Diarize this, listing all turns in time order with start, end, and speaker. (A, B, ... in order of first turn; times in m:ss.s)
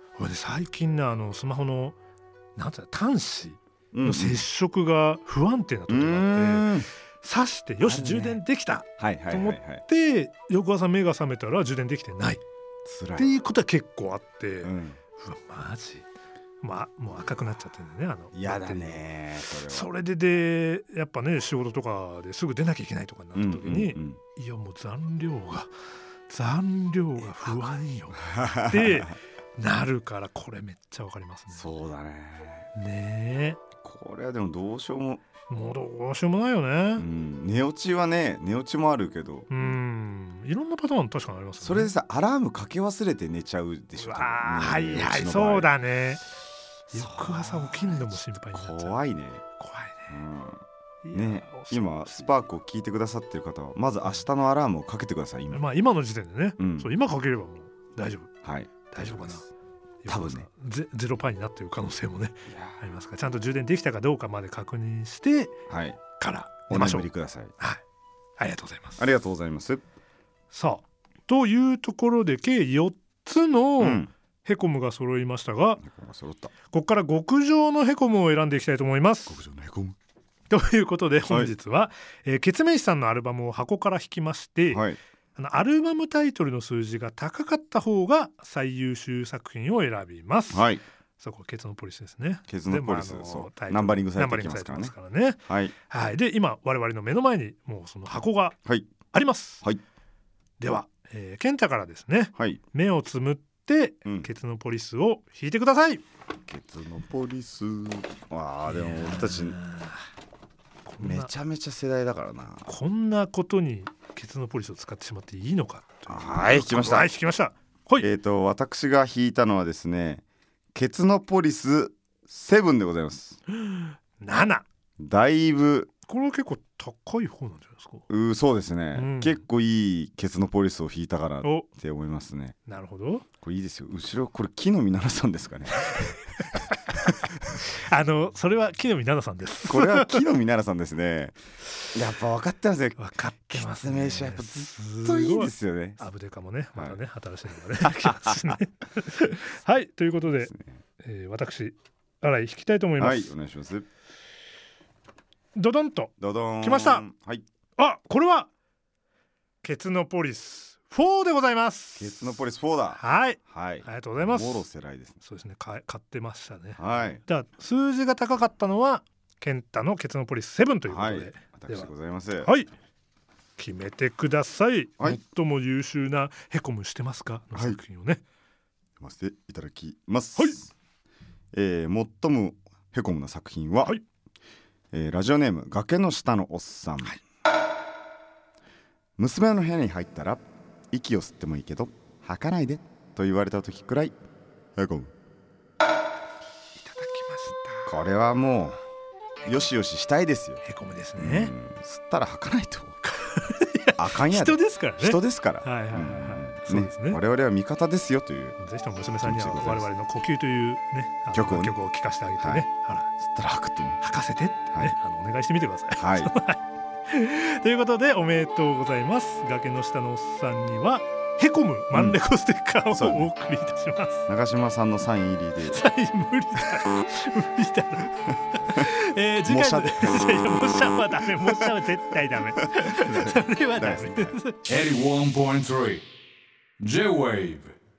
0:00.2-0:02.0 A
0:02.6-0:12.4 A
0:03.9-0:04.4 B
0:05.9-0:06.9 B
0:07.8-0:08.4 B
0:09.0-0:09.8 B
0:12.8-0:13.3 B
0:13.2-0:16.1 A
0:14.6-0:15.0 B
0:16.6-0:19.0 A
0:18.3-0:19.9 B
0:19.5-0:25.7 A
0:23.4-0:24.2 B
0:26.3-0:31.7 A
0:28.2-0:29.2 B
0:31.5-0:32.7 B
0:32.8-0:33.6 A
0:33.8-0:35.2 B
0:35.5-0:37.1 A
0:37.0-0:39.7 B
0:39.5-0:41.9 A
0:41.6-0:45.7 B
0:44.0-0:46.2 A
0:46.9-0:49.0 A
0:46.9-0:49.4 B
0:49.6-0:50.2 A
0:50.1-0:55.6 B
0:51.0-0:52.4 A
0:55.5-0:58.3 A
0:56.6-0:56.9 B
0:58.4-0:59.4 B
0:58.9-0:59.5 A
1:00.0-1:05.6 A
1:00.1-1:00.5 B
1:02.5-1:02.8 B
1:05.7-1:06.1 B
1:06.1-1:07.1 A
1:06.7-1:07.5 B
1:08.4-1:09.0 A
1:09.0-1:09.8 B
1:10.5-1:15.8 A
1:13.8-1:14.1 B
1:15.8-1:16.5 B
1:16.6-1:19.4 A
1:19.3-1:20.0 B
1:20.5-1:38.6 A
1:24.7-1:25.0 B
1:30.5-1:30.8 B
1:32.5-1:34.9 B
1:35.5-1:35.7 B
1:38.7-1:38.9 B
1:39.1-1:39.6 A
1:40.6-1:46.0 A
1:46.5-1:49.6 B
1:48.7-1:50.0 A
1:50.9-1:51.3 A
1:51.0-1:52.7 B
1:52.7-1:58.1 A
1:56.1-1:57.1 B
1:58.0-2:03.4 B
2:03.6-2:04.6 A
2:05.0-2:05.9 B
2:06.1-2:08.0 A
2:08.1-2:12.6 B
2:08.9-2:09.4 A
2:12.7-2:13.3 A
2:13.4-2:17.3 B
2:15.9-2:20.2 A
2:19.6-2:21.4 B
2:21.9-2:23.0 B
2:23.0-2:33.3 A
2:23.5-2:26.0 B
2:27.8-2:28.4 B
2:30.4-2:30.8 B
2:33.0-2:33.8 B
2:35.6-2:37.0 A
2:36.2-2:37.4 B
2:37.8-2:38.5 A
2:39.6-2:42.4 A
2:42.0-2:45.2 B
2:43.0-2:44.7 A
2:45.2-2:51.9 A
2:46.8-2:47.2 B
2:50.9-2:52.5 B
2:52.4-2:52.7 A
2:53.6-2:58.2 A
2:57.6-2:57.8 B
2:59.0-3:00.7 B
3:01.5-3:04.0 B
3:04.9-3:07.2 B
3:09.2-3:14.2 B
3:14.8-3:15.1 B
3:16.8-3:18.0 A
3:17.9-3:18.8 B
3:19.4-3:20.6 B
3:20.6-3:21.5 A
3:21.2-3:23.0 B
3:23.0-3:27.2 A
3:24.0-3:28.6 B
3:28.6-3:33.1 A
3:29.2-3:29.9 B
3:31.3-3:31.7 B
3:32.4-3:34.0 B
3:34.0-3:44.3 A
3:36.0-3:36.3 B
3:41.9-3:42.2 B
3:42.9-3:43.3 B
3:44.3-3:45.8 B
3:45.7-3:54.6 A
3:49.5-3:50.3 B
3:52.6-3:54.4 B
3:54.6-3:56.0 C
3:56.8-3:57.7 C